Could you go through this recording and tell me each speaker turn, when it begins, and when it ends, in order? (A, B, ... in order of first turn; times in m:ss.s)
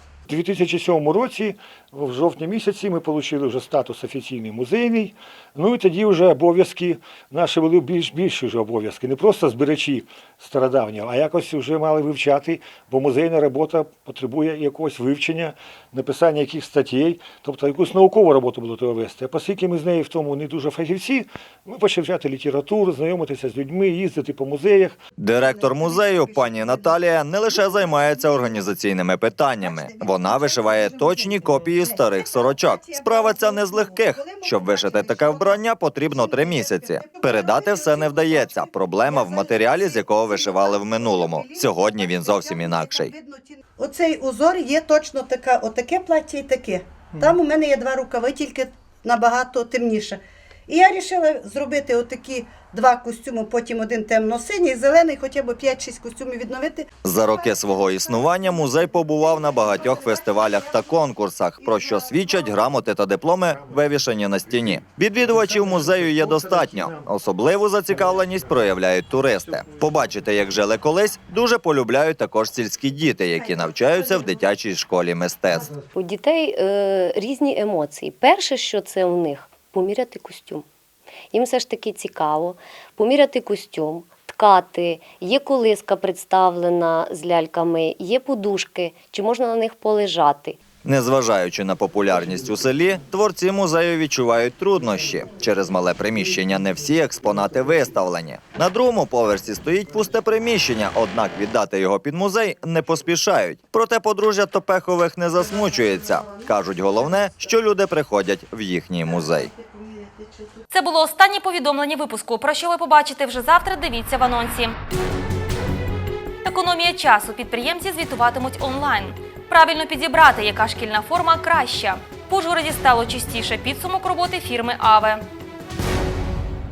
0:00.3-0:25.0 A
0:25.2-0:43.1 B
0:29.6-0:31.2 C
0:32.9-0:33.6 C
0:34.2-0:35.4 C
0:37.2-0:38.5 C
0:39.1-0:56.9 C
0:57.0-1:15.7 B
1:15.9-1:20.6 D
1:21.3-1:30.6 D
1:30.8-1:49.5 B
1:49.5-1:50.3 C
1:50.7-1:54.8 E
1:56.4-2:05.2 E